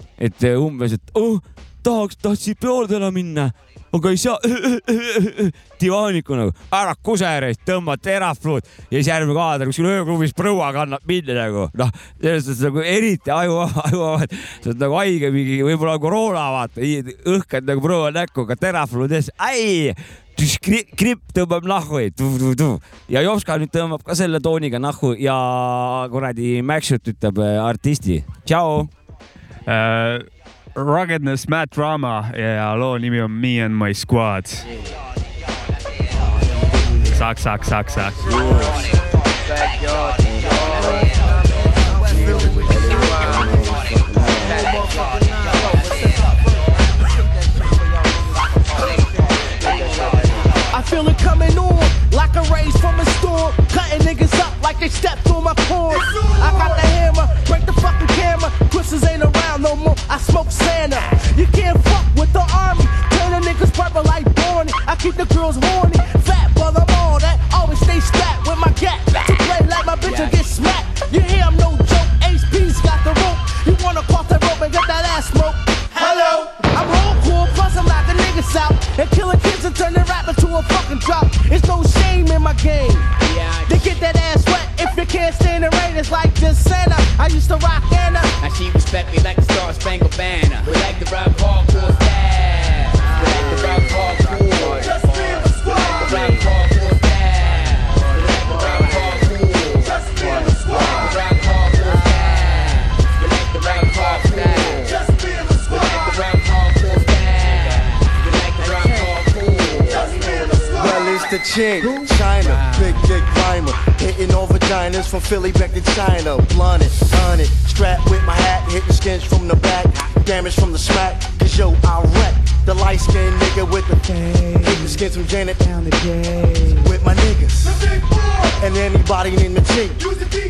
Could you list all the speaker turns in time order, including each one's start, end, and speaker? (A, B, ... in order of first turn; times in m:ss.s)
0:00.2-0:28.9 A
0:29.7-0:34.7 B
0:37.1-0:38.3 B
0:38.3-0:38.7 A
0:43.0-0:44.4 A
0:50.7-1:23.1 C
1:10.0-1:10.4 D
1:23.2-1:23.9 D
1:23.7-1:28.3 C
1:28.4-1:50.5 D
1:50.7-2:07.9 E
2:08.5-2:10.1 E